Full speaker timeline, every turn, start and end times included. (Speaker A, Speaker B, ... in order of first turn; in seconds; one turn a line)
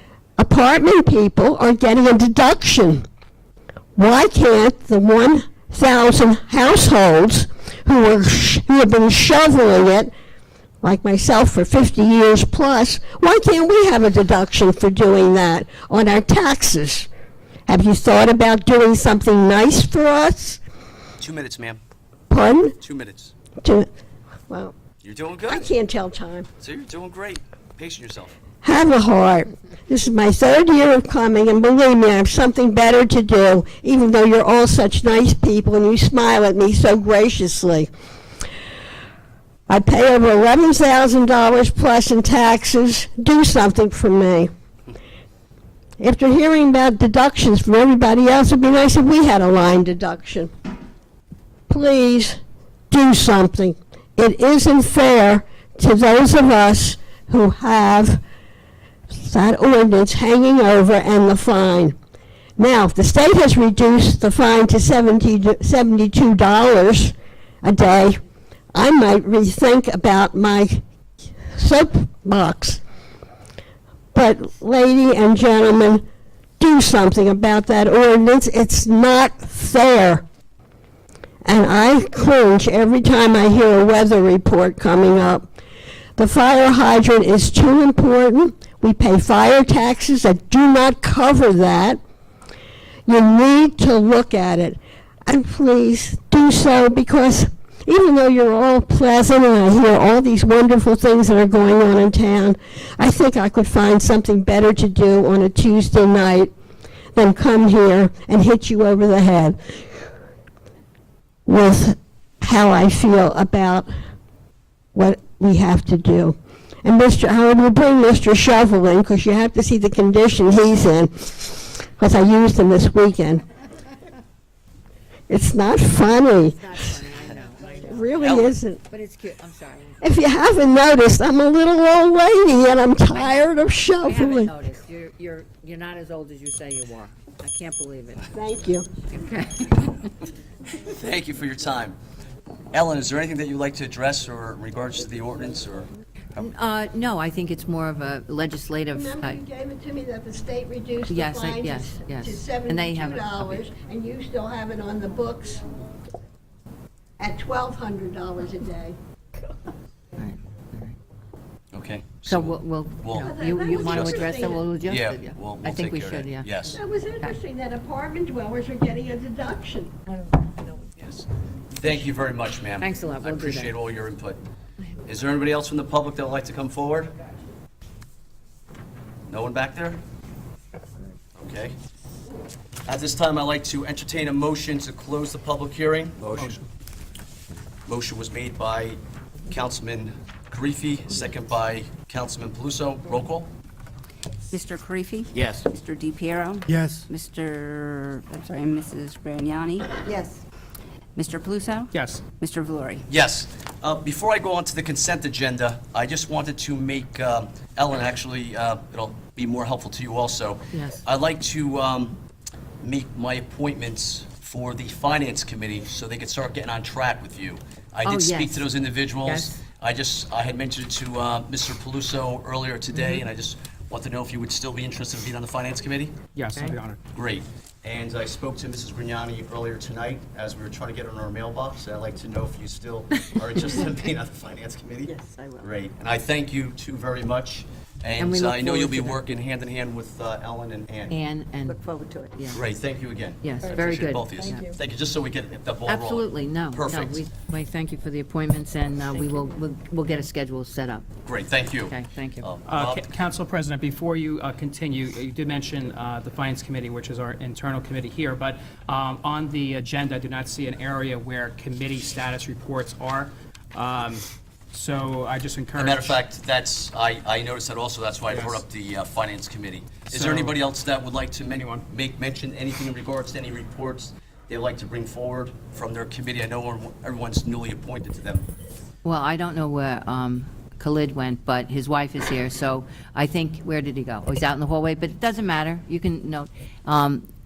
Speaker A: 0.4-3.0
Speaker A: 4.0-10.1
Speaker A: 10.8-17.1
Speaker A: 17.7-20.6
Speaker B: 21.2-21.8
Speaker A: 22.3-22.7
Speaker B: 22.8-23.3
Speaker A: 23.6-23.9
Speaker A: 24.5-24.7
Speaker B: 25.0-25.7
Speaker A: 25.5-26.5
Speaker B: 26.6-28.3
Speaker A: 28.6-37.9
Speaker A: 39.7-44.5
Speaker A: 46.0-50.5
Speaker A: 51.7-52.4
Speaker A: 52.9-58.2
Speaker A: 59.1-62.0
Speaker A: 62.6-68.2
Speaker A: 68.7-70.8
Speaker A: 71.5-72.8
Speaker A: 74.1-76.0
Speaker A: 76.6-80.2
Speaker A: 81.4-85.5
Speaker A: 86.2-92.0
Speaker A: 93.1-106.5
Speaker A: 107.1-109.6
Speaker A: 111.5-113.9
Speaker A: 114.9-123.4
Speaker A: 125.3-126.6
Speaker C: 126.2-128.2
Speaker A: 127.8-128.8
Speaker B: 128.2-128.6
Speaker C: 128.9-130.2
Speaker A: 130.0-134.5
Speaker C: 133.1-138.3
Speaker A: 138.3-138.9
Speaker C: 139.0-140.1
Speaker B: 140.8-141.9
Speaker B: 142.7-146.5
Speaker C: 146.4-149.4
Speaker A: 148.9-155.6
Speaker C: 151.1-153.7
Speaker A: 157.2-159.0
Speaker C: 160.2-160.9
Speaker B: 161.7-166.8
Speaker C: 162.2-166.5
Speaker A: 163.2-164.6
Speaker A: 166.7-169.9
Speaker B: 171.0-174.4
Speaker C: 172.8-173.7
Speaker B: 175.0-177.1
Speaker B: 179.3-180.0
Speaker B: 181.4-181.8
Speaker B: 182.8-186.6
Speaker B: 187.8-193.5
Speaker D: 194.5-200.4
Speaker B: 195.3-195.7
Speaker D: 201.2-203.0
Speaker E: 201.9-202.2
Speaker B: 203.1-212.2
Speaker C: 210.7-211.0
Speaker B: 212.8-226.2
Speaker C: 218.0-218.7
Speaker C: 219.2-219.6
Speaker C: 222.9-223.2
Speaker E: 226.3-227.0
Speaker B: 227.1-241.2
Speaker D: 235.1-235.6
Speaker C: 238.2-239.2
Speaker C: 241.1-241.8
Speaker D: 241.7-242.3
Speaker C: 242.3-242.6
Speaker B: 242.5-247.2
Speaker C: 243.4-244.7
Speaker C: 245.8-251.1
Speaker B: 251.2-253.1
Speaker C: 251.7-252.5
Speaker E: 252.7-266.2
Speaker B: 265.8-278.5
Speaker E: 268.3-268.6
Speaker E: 270.1-270.6
Speaker E: 271.5-271.8
Speaker C: 279.0-287.2